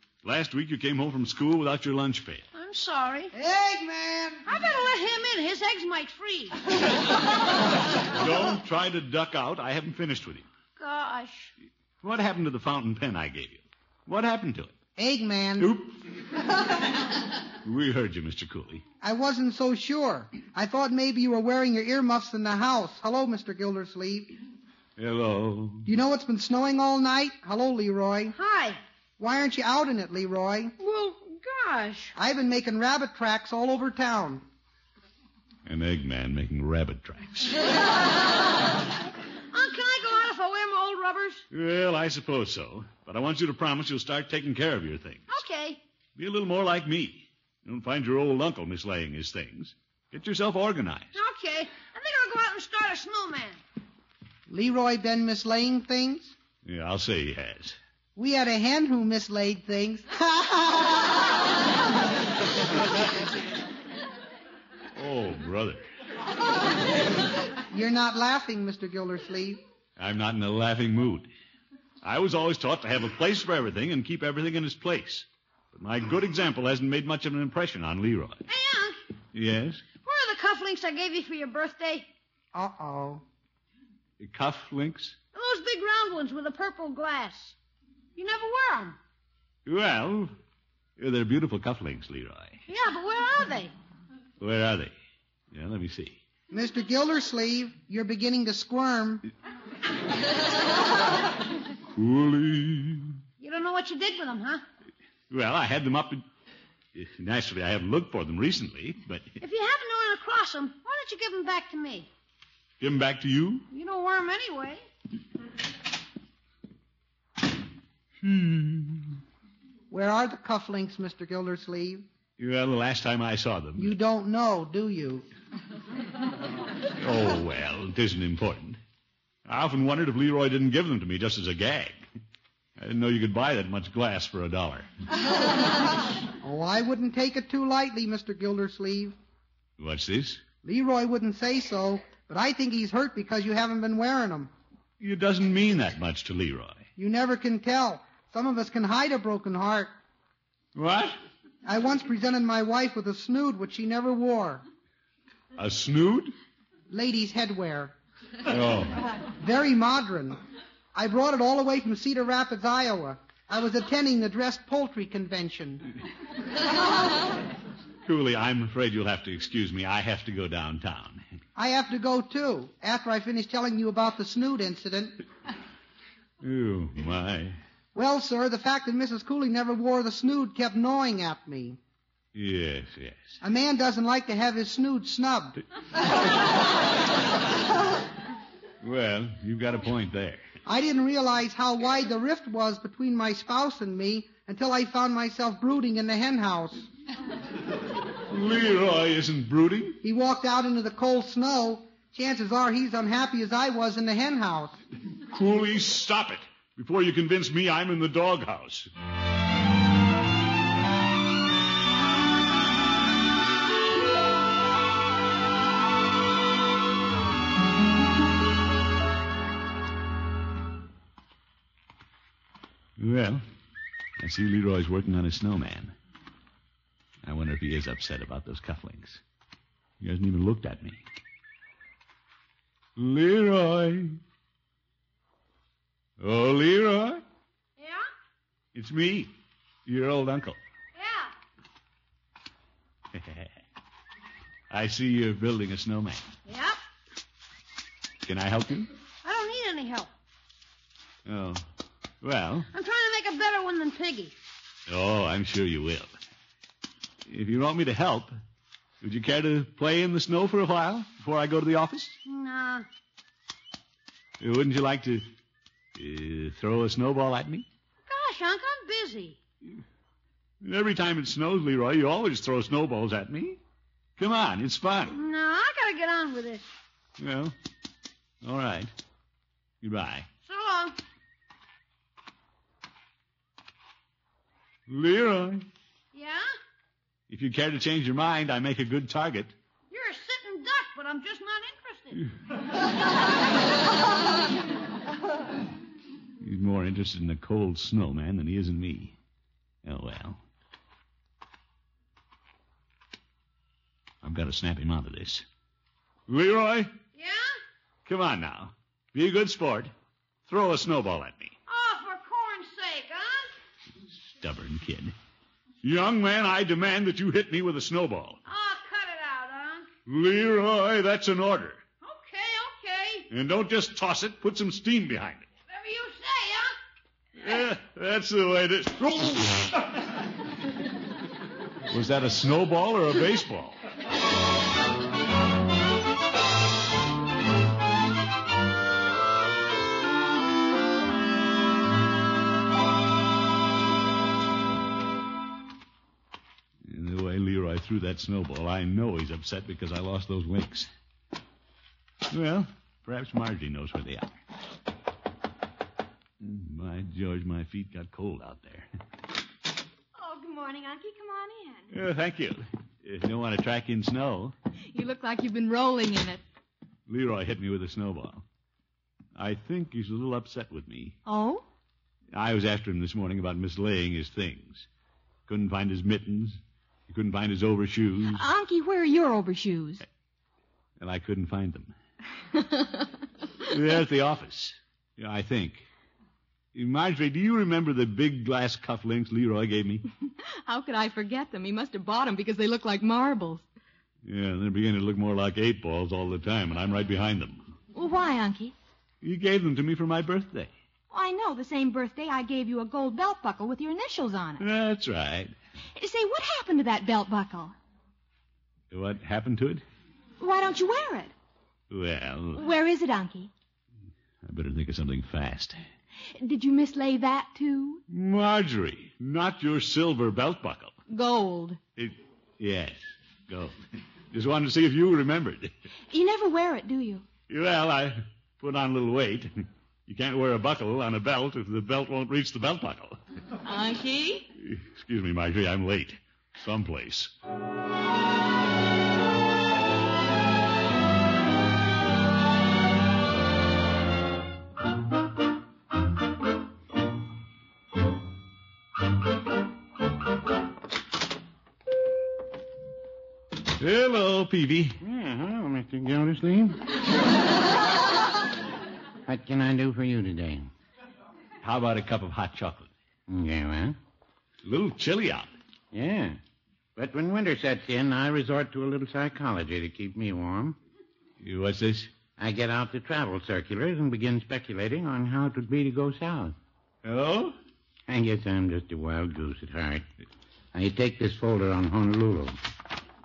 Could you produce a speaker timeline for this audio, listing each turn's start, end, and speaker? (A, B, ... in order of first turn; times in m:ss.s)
0:00.2-0:02.4 A
0:02.6-0:03.3 B
0:03.3-0:04.5 C
0:04.5-0:06.6 B
0:08.0-0:10.5 A
0:10.8-0:11.5 B
0:12.0-0:14.8 A
0:15.0-0:15.7 C
0:15.6-0:16.0 A
0:17.6-0:18.8 A
0:19.0-0:24.3 C
0:25.0-0:25.9 A
0:25.8-0:28.4 C
0:28.3-0:28.8 B
0:29.2-0:30.8 C
0:30.8-0:32.1 B
0:32.2-0:34.4 C
0:35.6-0:37.6 A
0:39.5-0:41.4 B
0:41.5-0:45.4 A
0:45.3-0:45.8 B
0:46.2-0:51.1 A
0:51.1-0:53.6 B
0:54.5-0:56.3 C
0:56.6-0:57.8 A
0:58.2-1:01.2 C
1:05.0-1:05.9 A
1:07.7-1:09.6 C
1:10.0-1:11.3 A
1:12.0-1:18.4 A
1:18.5-1:19.0 B
1:19.3-1:19.8 A
1:20.0-1:22.1 B
1:22.5-1:23.2 C
1:24.2-1:25.2 A
1:25.3-1:27.6 B
1:28.2-1:29.0 B
1:29.6-1:30.3 A
1:31.0-1:32.6 A
1:32.7-1:33.7 B
1:34.4-1:34.9 A
1:35.5-1:36.2 A
1:36.5-1:39.3 C
1:41.9-1:43.2 A
1:43.4-1:44.6 B
1:45.3-1:46.2 A
1:46.9-1:49.3 A
1:49.4-1:52.1 B
1:52.8-1:53.7 A
1:53.7-1:54.9 B
1:58.2-1:59.2 A
1:59.9-2:02.1 C
2:02.4-2:04.0 A
2:03.8-2:05.2 C
2:07.0-2:08.8 A
2:09.4-2:12.0 A
2:12.8-2:14.9 A
2:16.4-2:19.2 C
2:19.8-2:20.4 A
2:20.6-2:24.5 C
2:25.0-2:26.8 A
2:27.0-2:29.9 C
2:30.8-2:31.2 A
2:31.6-2:34.6 C
2:35.6-2:36.3 A
2:36.9-2:37.9 C
2:38.5-2:39.1 A
2:39.2-2:40.4 C
2:41.0-2:45.9 C
2:48.0-2:51.2 A
2:51.6-2:55.2 C
2:56.4-2:57.6 A
2:58.0-3:01.8 C
3:02.3-3:03.4 A
3:03.4-3:05.6 C
3:08.8-3:10.5 A
3:10.7-3:16.9 C
3:18.2-3:20.0 A
3:20.0-3:24.8 C
3:25.3-3:28.9 A
3:43.0-3:43.4 A
3:44.2-3:46.0 A
3:47.2-3:49.2 A
3:50.0-3:51.0 A
3:53.0-3:54.2 A
3:56.2-3:57.2 A
3:57.8-3:58.1 B
3:58.7-3:59.3 A
3:59.9-4:00.6 A
4:01.0-4:01.3 B
4:03.1-4:03.6 A
4:04.7-4:06.3 A
4:06.5-4:06.8 B
4:08.2-4:08.9 A
4:09.2-4:10.1 B
4:11.3-4:11.6 A
4:12.2-4:12.7 A
4:12.7-4:14.4 B
4:14.9-4:16.2 A
4:17.3-4:18.4 A
4:19.0-4:22.2 A
4:22.2-4:22.9 B
4:24.4-4:25.3 A
4:26.0-4:27.7 A
4:28.1-4:29.4 B
4:30.6-4:33.6 A
4:34.2-4:35.2 A
4:35.1-4:36.7 B
4:37.2-4:37.5 A
4:38.4-4:38.9 A
4:39.8-4:40.3 A
4:40.4-4:41.0 B
4:44.9-4:45.7 A
4:46.1-4:46.5 B
4:47.3-4:49.6 A
4:49.9-4:52.3 B
4:56.4-4:59.2 A
4:59.8-5:00.4 A
5:04.2-5:05.5 A
5:06.3-5:07.0 A
5:07.2-5:07.5 B
5:08.1-5:09.9 A
5:10.5-5:11.6 A
5:11.7-5:13.5 B
5:14.1-5:15.1 A
5:15.8-5:18.4 A
5:18.5-5:19.9 B
5:20.1-5:21.8 A
5:22.0-5:23.3 B
5:23.3-5:25.5 A
5:25.7-5:26.7 B
5:27.4-5:30.2 A
5:31.9-5:33.8 A
5:46.8-5:50.9 A
5:52.3-5:54.4 A
5:56.4-5:58.9 A
6:00.2-6:01.9 D
6:01.9-6:04.6 A
6:04.9-6:06.4 D
6:07.1-6:08.4 A
6:09.4-6:11.2 A
6:11.3-6:11.6 D
6:12.3-6:14.9 A
6:15.5-6:18.5 A
6:18.3-6:20.0 D
6:21.0-6:22.0 A
6:22.5-6:23.1 D
6:23.7-6:25.8 A
6:26.7-6:30.1 A
6:30.3-6:33.6 D
6:34.2-6:37.8 A
6:37.9-6:38.8 D
6:39.2-6:40.7 A
6:41.1-6:44.6 D
6:44.6-6:45.6 A
6:46.0-6:47.8 D
6:48.9-6:49.8 A
6:50.4-6:51.3 D
6:51.9-6:52.7 A
6:52.6-6:53.5 D
6:54.4-6:55.8 A
6:56.3-6:58.0 D
6:58.1-7:01.0 A
7:01.1-7:01.8 D
7:02.0-7:03.8 A
7:04.3-7:05.7 A
7:06.1-7:07.2 D
7:07.5-7:13.2 A
7:13.6-7:14.5 D
7:14.6-7:17.3 A
7:33.8-7:35.0 A
7:35.0-7:36.9 E
7:39.3-7:40.7 E
7:41.6-7:42.9 A
7:43.3-7:44.0 E
7:44.6-7:45.5 A
7:45.9-7:46.4 E
7:47.0-7:50.8 E
7:51.4-7:52.1 A
7:52.4-7:56.6 E
7:57.0-7:57.6 A
7:58.1-8:00.1 E
8:00.7-8:02.6 E